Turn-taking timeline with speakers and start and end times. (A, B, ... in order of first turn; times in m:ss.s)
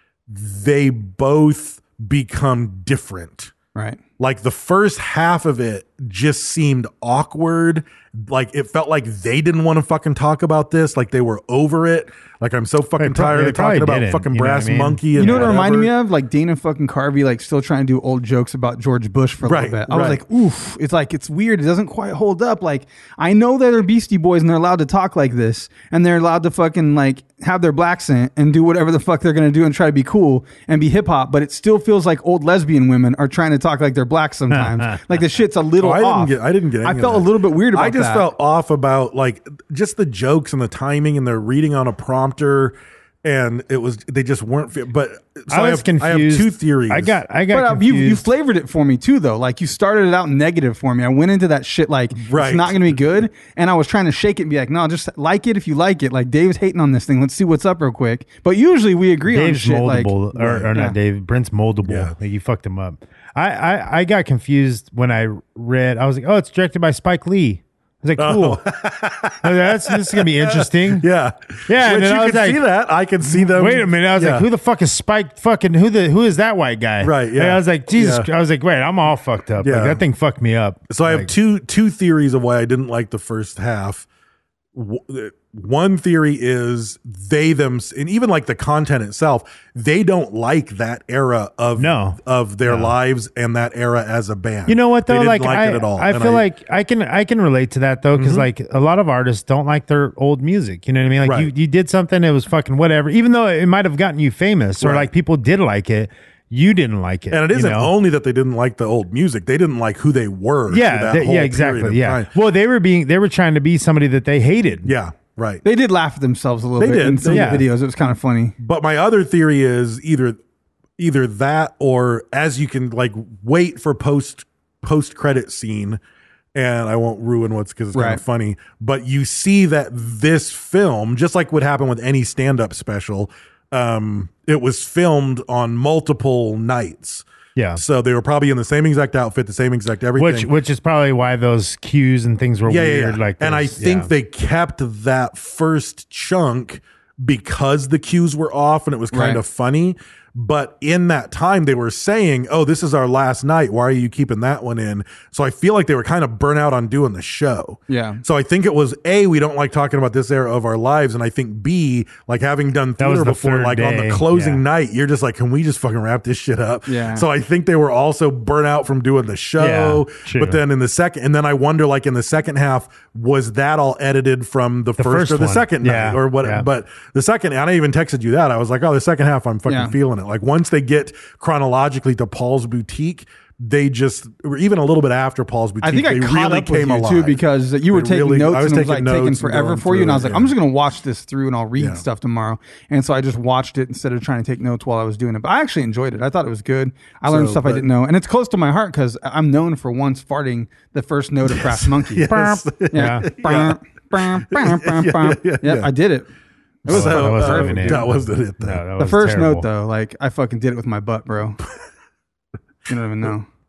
0:00.3-0:03.5 A
0:04.2-0:15.9 A
0:13.0-0:15.5 B
0:15.1-0:38.3 C
0:19.4-0:20.2 A
0:34.5-0:35.0 B
0:35.8-0:47.2 A
0:45.5-0:48.3 B
0:47.5-1:00.1 C
0:52.2-0:52.8 A
0:59.3-1:08.6 B
1:00.3-1:00.7 A
1:01.8-1:02.1 A
1:08.2-1:14.5 A
1:09.4-1:11.1 B
1:11.7-1:12.6 B
1:13.4-1:21.3 B
1:17.0-1:18.3 A
1:19.6-1:20.0 A
1:20.9-1:24.0 A
1:24.7-1:36.4 A
1:31.8-1:32.9 B
1:34.7-1:47.9 B
1:38.1-1:38.5 A
1:41.2-1:41.5 A
1:44.8-1:45.1 A
1:47.3-1:52.3 A
1:50.7-1:54.9 B
1:54.8-1:55.6 A
1:55.6-1:58.6 C
1:56.8-1:57.6 A
1:57.3-1:57.6 B
1:58.6-2:00.4 A
2:01.0-2:06.0 A
2:06.5-2:20.5 A
2:07.9-2:08.2 C
2:17.6-2:17.8 B
2:20.2-2:24.1 B
2:22.6-3:10.5 A
2:29.1-2:29.4 C
2:37.9-2:38.2 C
2:43.0-2:44.6 B
2:46.9-2:47.2 C
2:49.6-2:50.6 B
2:55.0-2:56.6 B
2:59.7-2:59.9 C
3:05.8-3:22.3 C
3:11.8-3:12.0 A
3:17.2-3:17.9 A
3:21.5-3:25.9 A
3:22.3-3:23.3 B
3:22.9-3:26.3 C
3:26.8-3:28.0 C
3:26.8-3:28.8 A
3:26.9-3:29.6 B
3:29.0-3:31.6 C
3:32.9-3:33.4 C